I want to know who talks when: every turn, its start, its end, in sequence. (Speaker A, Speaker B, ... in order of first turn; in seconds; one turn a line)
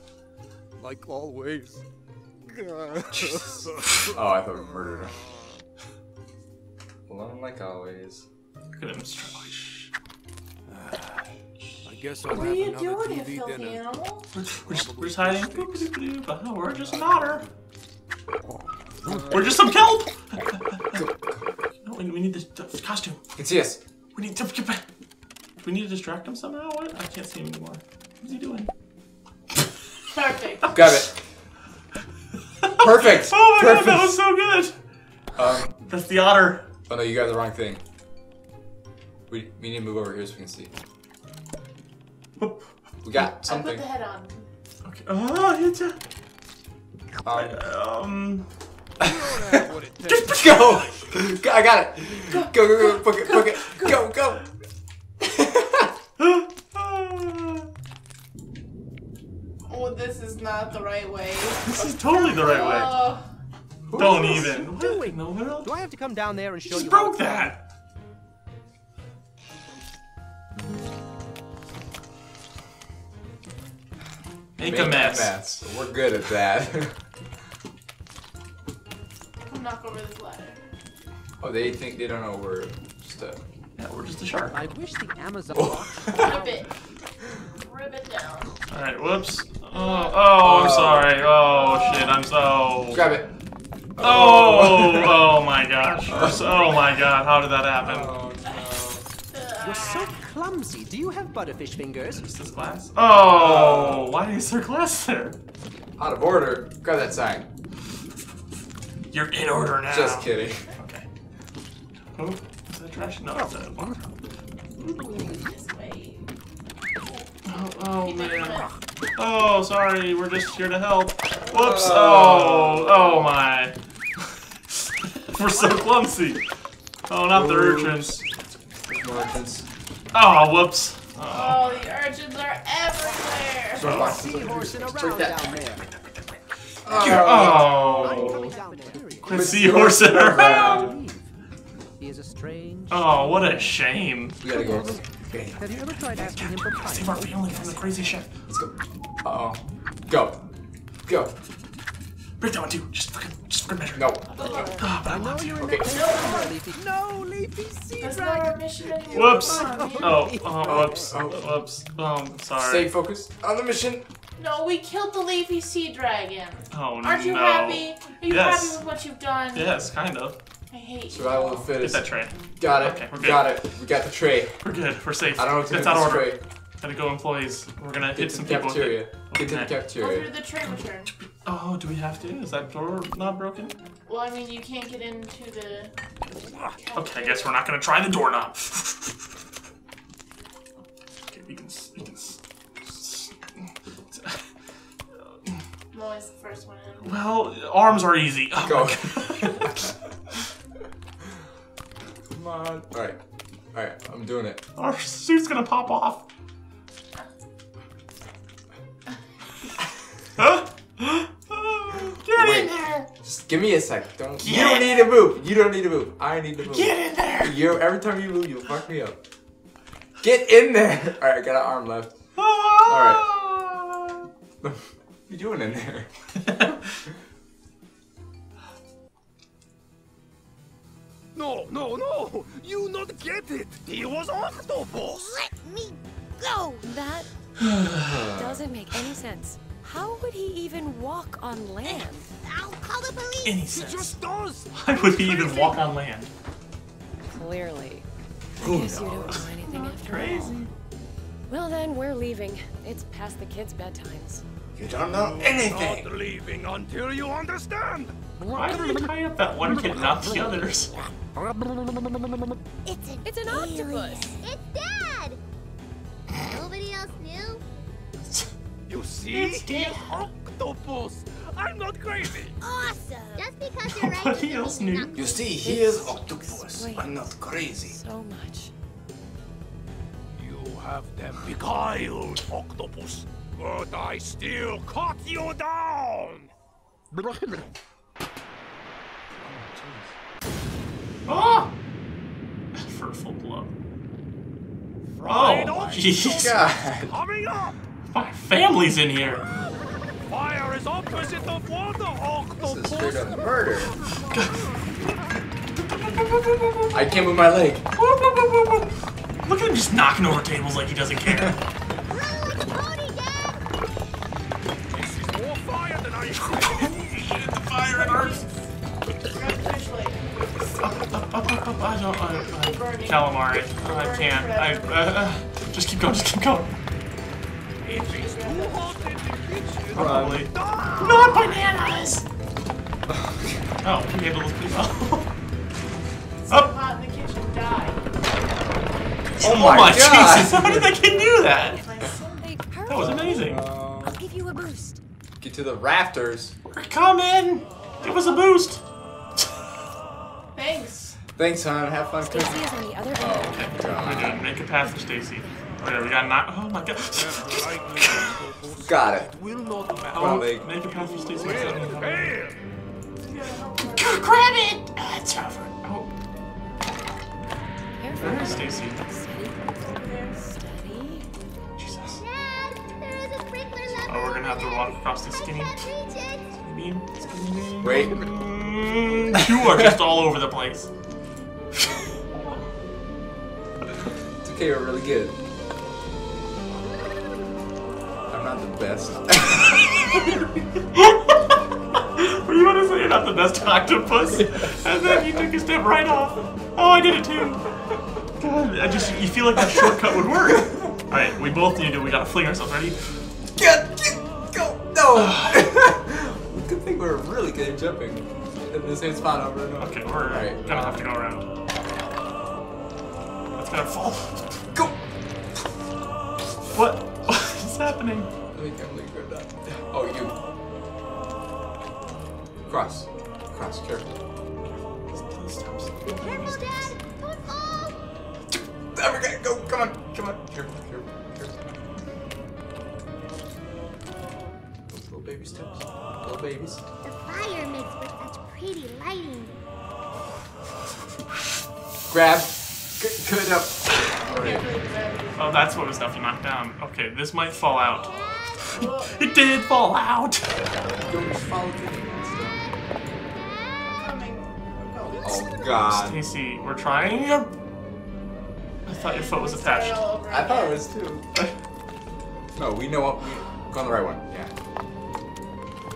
Speaker A: 0.8-1.8
Speaker A: 2.5-3.7
Speaker B: 3.1-5.2
Speaker B: 7.1-8.2
Speaker C: 8.8-9.9
Speaker A: 10.7-11.3
Speaker C: 11.6-12.0
Speaker A: 11.8-13.9
Speaker D: 12.3-14.3
Speaker C: 14.3-17.4
Speaker A: 14.4-15.9
Speaker A: 19.0-19.5
Speaker B: 19.0-19.6
Speaker C: 19.3-21.0
Speaker B: 20.9-21.4
Speaker C: 21.8-23.2
Speaker B: 23.4-23.8
Speaker C: 24.1-24.8
Speaker C: 25.6-28.7
Speaker D: 30.1-30.7
Speaker B: 30.7-31.2
Speaker C: 32.6-34.8
Speaker B: 32.8-34.2
Speaker B: 35.4-35.8
Speaker C: 35.9-36.7
Speaker B: 36.9-37.8
Speaker B: 39.3-40.7
Speaker C: 42.4-42.7
Speaker B: 43.0-43.9
Speaker D: 43.2-44.5
Speaker C: 44.8-46.0
Speaker B: 47.2-47.6
Speaker C: 47.3-48.5
Speaker A: 49.0-50.5
Speaker B: 49.0-49.7
Speaker C: 50.1-51.0
Speaker B: 50.2-54.5
Speaker D: 52.2-54.0
Speaker B: 55.2-55.9
Speaker C: 56.2-57.7
Speaker D: 59.7-63.2
Speaker C: 61.6-63.0
Speaker B: 63.9-64.6
Speaker C: 63.9-65.7
Speaker E: 64.3-67.5
Speaker C: 66.7-67.6
Speaker C: 74.6-75.3
Speaker B: 74.6-77.0
Speaker D: 79.5-80.6
Speaker B: 81.4-83.4
Speaker C: 83.8-84.6
Speaker E: 84.5-86.6
Speaker B: 85.5-86.3
Speaker D: 86.1-86.7
Speaker D: 87.6-88.5
Speaker C: 88.7-93.1
Speaker D: 89.7-90.4
Speaker B: 90.4-91.1
Speaker D: 91.4-92.3
Speaker B: 92.9-93.3
Speaker B: 94.0-95.2
Speaker C: 94.0-98.1
Speaker B: 96.1-96.5
Speaker B: 97.8-99.1
Speaker D: 99.3-100.2
Speaker E: 99.6-102.2
Speaker C: 102.1-105.4
Speaker B: 103.3-104.1
Speaker B: 106.0-107.5
Speaker C: 109.1-111.1
Speaker B: 109.9-110.7
Speaker C: 112.2-114.0
Speaker C: 114.8-115.2
Speaker D: 115.1-116.3
Speaker C: 117.5-123.8
Speaker D: 118.0-118.7
Speaker B: 121.5-123.0
Speaker C: 125.2-126.4
Speaker A: 125.4-125.9
Speaker C: 127.1-128.2
Speaker B: 127.3-128.2
Speaker B: 128.8-129.7
Speaker C: 130.1-131.9
Speaker D: 131.3-134.0
Speaker B: 133.8-135.6
Speaker C: 133.8-134.3
Speaker E: 134.0-135.9
Speaker B: 136.8-138.0
Speaker C: 136.9-138.6
Speaker E: 137.1-141.3
Speaker C: 139.1-140.9
Speaker B: 139.3-141.0
Speaker E: 142.0-143.7
Speaker C: 142.9-144.4
Speaker B: 144.4-145.6
Speaker E: 144.7-145.0
Speaker E: 145.6-148.1
Speaker C: 146.1-148.3
Speaker B: 148.5-150.4
Speaker B: 151.1-151.3
Speaker C: 152.4-155.9
Speaker B: 153.9-154.6
Speaker D: 154.4-154.9
Speaker E: 154.9-157.9
Speaker B: 155.6-156.0
Speaker D: 155.8-156.6
Speaker A: 156.7-159.7
Speaker D: 158.0-160.2
Speaker E: 158.9-161.2
Speaker C: 159.1-162.9
Speaker B: 160.7-161.5
Speaker B: 162.6-164.1
Speaker D: 164.4-169.7
Speaker C: 166.7-168.8
Speaker C: 169.5-170.4
Speaker D: 170.7-171.7
Speaker B: 171.1-174.6
Speaker C: 171.8-173.6
Speaker C: 174.6-179.8
Speaker B: 175.4-176.4
Speaker B: 178.2-180.3
Speaker D: 180.0-181.1
Speaker C: 181.4-183.8
Speaker D: 184.1-185.9
Speaker D: 186.8-187.6
Speaker C: 187.0-189.2
Speaker C: 191.3-194.4
Speaker D: 195.9-197.2
Speaker C: 197.0-199.8
Speaker B: 198.6-199.9
Speaker B: 202.3-203.2
Speaker B: 203.7-204.6
Speaker C: 204.8-206.3
Speaker C: 210.4-213.1
Speaker B: 212.3-219.2
Speaker C: 214.4-215.1
Speaker C: 216.6-217.6
Speaker B: 220.2-222.1
Speaker C: 222.4-224.3
Speaker B: 222.8-223.3
Speaker B: 224.6-226.1
Speaker A: 231.3-235.5
Speaker F: 235.1-236.9
Speaker G: 236.8-237.3
Speaker C: 237.6-238.2
Speaker B: 237.9-238.6
Speaker G: 238.3-242.3
Speaker F: 241.8-243.6
Speaker C: 243.4-244.2
Speaker A: 243.7-245.5
Speaker C: 244.8-246.3
Speaker G: 247.3-248.1
Speaker B: 248.6-249.5
Speaker G: 248.6-250.6
Speaker C: 249.7-250.7
Speaker G: 251.5-254.4
Speaker B: 254.8-256.1
Speaker A: 255.1-259.1
Speaker C: 258.5-260.9
Speaker A: 259.6-260.8
Speaker A: 261.4-262.4
Speaker F: 262.9-265.4
Speaker G: 263.2-264.4
Speaker F: 266.4-267.6
Speaker C: 268.2-268.5
Speaker A: 268.9-272.6
Speaker C: 269.3-270.2
Speaker F: 272.6-275.6
Speaker G: 272.8-273.4
Speaker C: 273.9-275.2
Speaker B: 275.1-278.0
Speaker G: 275.6-278.7
Speaker A: 280.3-286.5
Speaker A: 287.1-287.6
Speaker C: 291.3-291.7
Speaker C: 292.8-293.7
Speaker A: 295.1-297.8
Speaker C: 295.2-296.6
Speaker B: 295.4-297.1
Speaker C: 298.1-299.5
Speaker A: 299.2-299.7
Speaker A: 300.3-303.5
Speaker B: 302.6-304.0
Speaker C: 304.3-305.1
Speaker A: 304.3-305.1
Speaker C: 305.9-307.1
Speaker B: 306.9-307.9
Speaker C: 308.0-311.6
Speaker F: 312.1-313.7
Speaker A: 314.9-318.1
Speaker C: 316.8-318.4
Speaker D: 317.9-318.5
Speaker D: 319.3-321.1
Speaker C: 320.8-326.8
Speaker D: 322.4-325.2
Speaker A: 327.8-331.7
Speaker D: 327.9-329.0
Speaker C: 329.9-332.3
Speaker B: 329.9-330.5
Speaker B: 333.1-333.7
Speaker C: 333.8-335.3
Speaker D: 336.5-338.0
Speaker C: 339.4-341.8
Speaker B: 339.4-341.0
Speaker G: 341.6-345.0
Speaker D: 341.6-342.5
Speaker C: 342.9-343.6
Speaker B: 342.9-344.3
Speaker B: 345.4-346.5
Speaker C: 346.7-348.8
Speaker D: 348.0-348.5
Speaker D: 350.6-351.2
Speaker B: 351.4-354.4
Speaker G: 352.2-355.6
Speaker C: 353.5-358.4
Speaker A: 357.1-362.6
Speaker B: 358.8-359.3
Speaker B: 360.1-360.7
Speaker C: 360.1-362.5
Speaker D: 363.2-364.3
Speaker C: 363.8-366.1
Speaker G: 367.9-371.3
Speaker C: 368.2-369.0
Speaker D: 369.8-370.5
Speaker C: 371.8-372.2
Speaker F: 372.1-376.6
Speaker C: 374.0-375.8
Speaker C: 376.6-380.9
Speaker B: 377.8-378.3
Speaker B: 379.5-379.9
Speaker B: 384.4-385.4
Speaker B: 388.3-389.7
Speaker C: 389.8-390.1
Speaker C: 390.9-391.4
Speaker C: 392.2-397.6
Speaker C: 398.4-403.0
Speaker D: 398.8-399.3
Speaker B: 403.6-411.1
Speaker C: 405.1-405.7
Speaker C: 409.8-411.5
Speaker C: 413.5-414.6
Speaker B: 414.7-415.0
Speaker C: 416.7-418.3
Speaker B: 418.5-420.4
Speaker B: 422.7-424.1
Speaker C: 424.6-426.9
Speaker F: 426.1-428.0
Speaker B: 428.5-431.7
Speaker B: 434.9-436.8
Speaker F: 437.0-439.6
Speaker B: 442.1-444.7
Speaker D: 444.2-445.8
Speaker C: 445.4-450.6
Speaker D: 448.7-449.2
Speaker B: 450.9-452.7
Speaker D: 453.8-455.5
Speaker B: 455.2-456.2
Speaker C: 455.9-457.5
Speaker C: 458.9-460.0
Speaker D: 458.9-460.8
Speaker B: 460.3-461.3
Speaker B: 462.6-464.5